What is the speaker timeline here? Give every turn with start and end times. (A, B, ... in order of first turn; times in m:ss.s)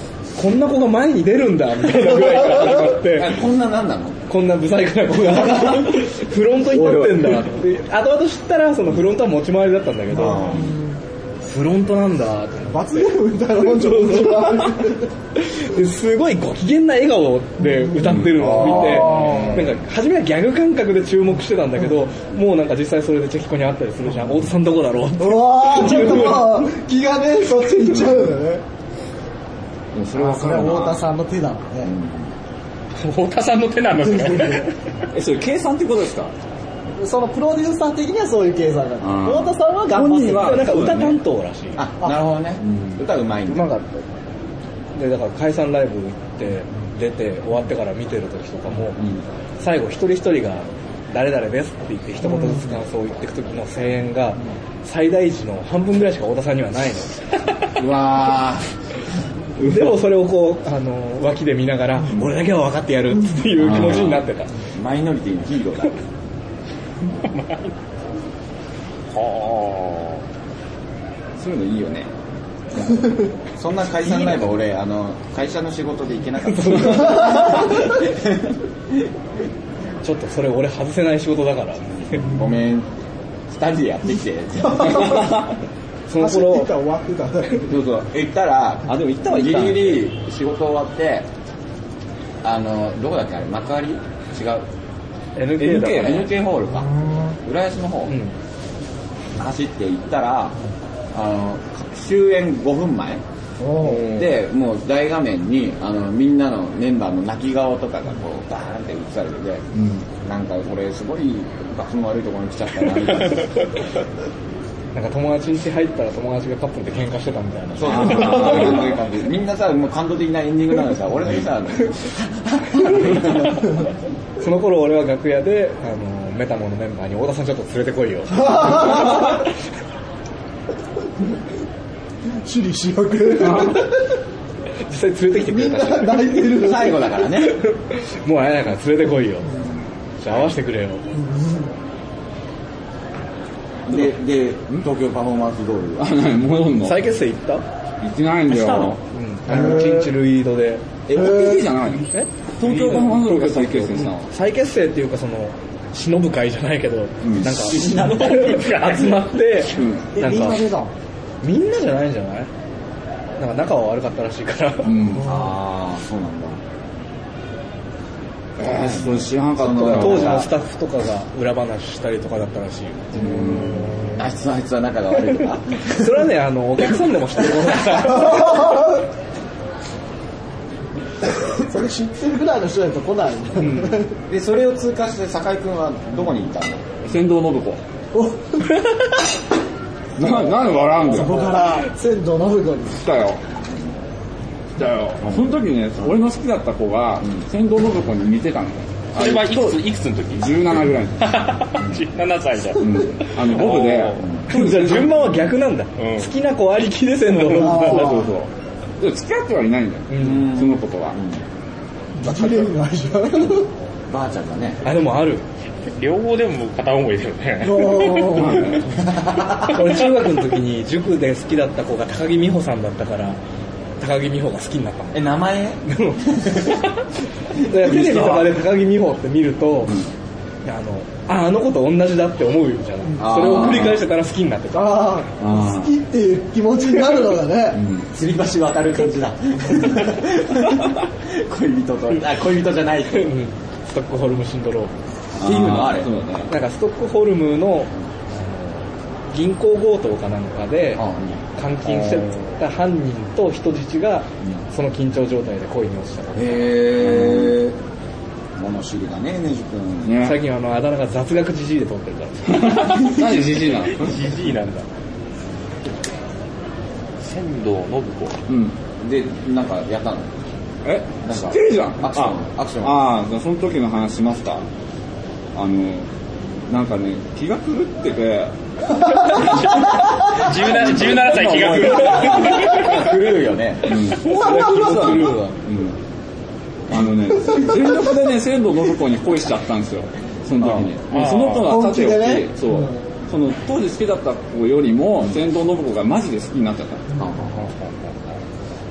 0:00.3-0:03.4 A
0:03.1-0:04.2 B
0:04.3-0:10.6 A
0:06.8-0:07.1 C
0:10.1-0:10.6 B
0:10.4-0:10.9 D
0:11.4-0:14.9 A
0:12.7-0:15.1 D
0:15.4-0:26.7 A
0:18.4-0:19.2 B
0:18.5-0:19.6 D
0:25.2-0:28.6 D
0:29.9-0:31.0 C
0:30.1-0:31.9 D
0:31.8-0:32.2 B
0:33.0-0:34.7 E
0:34.1-0:34.6 D
0:35.1-0:36.3 C
0:37.0-0:40.6 D
0:39.0-0:41.2 C
0:40.0-0:41.8 A
0:41.8-0:43.7 B
0:42.6-0:43.0 C
0:43.5-0:44.0 A
0:44.9-0:49.0 A
0:48.9-0:49.2 C
0:49.6-0:57.2 A
0:57.8-0:58.7 B
0:59.6-0:59.9 C
0:59.6-1:04.5 A
1:03.6-1:04.2 C
1:04.7-1:06.0 B
1:07.2-1:07.7 E
1:09.1-1:10.2 E
1:11.4-1:12.1 C
1:13.6-1:18.2 B
1:16.5-1:17.7 A
1:20.0-1:22.2 A
1:22.1-1:22.9 B
1:23.5-1:25.4 B
1:26.1-1:26.7 A
1:26.2-1:27.7 D
1:27.7-1:31.2 B
1:28.9-1:30.1 C
1:32.4-1:34.6 B
1:35.3-1:36.3 A
1:35.6-1:36.3 C
1:35.8-1:36.9 B
1:37.4-1:38.2 B
1:38.1-1:38.3 A
1:39.4-1:40.6 B
1:41.1-1:43.2 B
1:43.6-1:44.0 D
1:43.8-1:44.3 A
1:43.9-1:49.6 B
1:49.7-1:50.0 C
1:50.2-1:53.6 B
1:54.9-1:58.8 A
1:57.8-2:03.5 B
1:57.8-1:59.0 C
2:04.4-2:09.3 A
2:08.3-2:09.3 D
2:12.4-2:13.9 D
2:13.4-2:13.8 C
2:14.9-2:16.5 A
2:15.5-2:17.0 D
2:16.5-2:17.6 B
2:17.6-2:19.5 A
2:20.2-2:21.0 A
2:21.1-2:21.7 D
2:23.9-2:26.1 B
2:26.0-2:27.0 C
2:26.8-2:27.6 A
2:28.0-2:29.0 C
2:28.6-2:31.0 A
2:29.5-2:30.1 D
2:29.5-2:29.8 B
2:31.1-2:34.3 C
2:31.2-2:31.6 D
2:32.1-2:40.7 A
2:37.2-2:37.6 C
2:37.4-2:38.6 B
2:37.9-2:39.4 E
2:39.7-2:40.2 C
2:40.2-2:40.9 B
2:41.4-2:42.5 A
2:43.4-2:45.1 A
2:44.8-2:45.3 C
2:45.2-2:46.6 B
2:48.6-2:50.5 C
2:48.7-2:50.5 B
2:49.8-2:54.2 A
2:53.1-2:53.8 C
2:53.2-2:56.1 B
2:55.8-2:58.7 A
2:58.3-2:58.8 D
3:01.5-3:04.1 D
3:03.6-3:04.0 A
3:04.3-3:06.8 B
3:07.0-3:07.8 C
3:08.1-3:08.7 D
3:10.2-3:11.5 C
3:11.0-3:13.0 D
3:13.0-3:13.4 C
3:14.8-3:21.4 C
3:19.1-3:24.3 E
3:22.8-3:25.2 C
3:24.5-3:28.2 A
3:25.9-3:26.3 E
3:27.5-3:28.3 D
3:27.7-3:31.2 C
3:30.1-3:30.4 A
3:30.2-3:31.4 B
3:32.2-3:33.7 D
3:32.3-3:32.6 C
3:34.1-3:34.8 B
3:34.8-3:35.4 A
3:35.9-3:38.5 E
3:37.6-3:38.8 D
3:38.3-3:38.9 C
3:39.0-3:39.7 B
3:39.7-3:43.4 A
3:44.0-3:45.2 A
3:45.1-3:46.7 B
3:45.8-3:46.6 A
3:47.6-3:49.9 A
3:47.8-3:48.5 C
3:49.8-3:50.1 C
3:50.6-3:55.2 A
3:53.2-3:54.0 B
3:53.4-3:53.9 C
3:54.7-3:57.8 D
3:55.4-3:56.0 C
3:57.7-3:58.1 C
3:58.0-4:03.4 B
4:03.1-4:05.0 A
4:05.4-4:06.5 C
4:05.4-4:06.1 B
4:06.5-4:11.0 A
4:11.0-4:11.4 B
4:11.6-4:16.7 A
4:16.3-4:17.8 B
4:17.0-4:17.6 C
4:18.6-4:20.2 B
4:20.0-4:20.4 C
4:20.2-4:23.0 A
4:22.5-4:24.2 C
4:23.9-4:24.8 E
4:27.2-4:28.4 E
4:28.5-4:28.8 C
4:29.0-4:30.3 B
4:30.8-4:34.6 C
4:31.2-4:33.1 B
4:35.5-4:36.1 C
4:36.7-4:38.5 C
4:39.2-4:39.7 C
4:39.3-4:43.0 E
4:40.6-4:41.8 C
4:40.6-4:44.1 B
4:43.8-4:46.0 C
4:44.2-4:45.6 A
4:46.9-4:57.0 C
4:50.6-4:50.9 B
4:51.1-4:51.7 E
4:51.6-4:53.0 D
4:57.2-4:57.5 B
4:57.5-4:58.1 E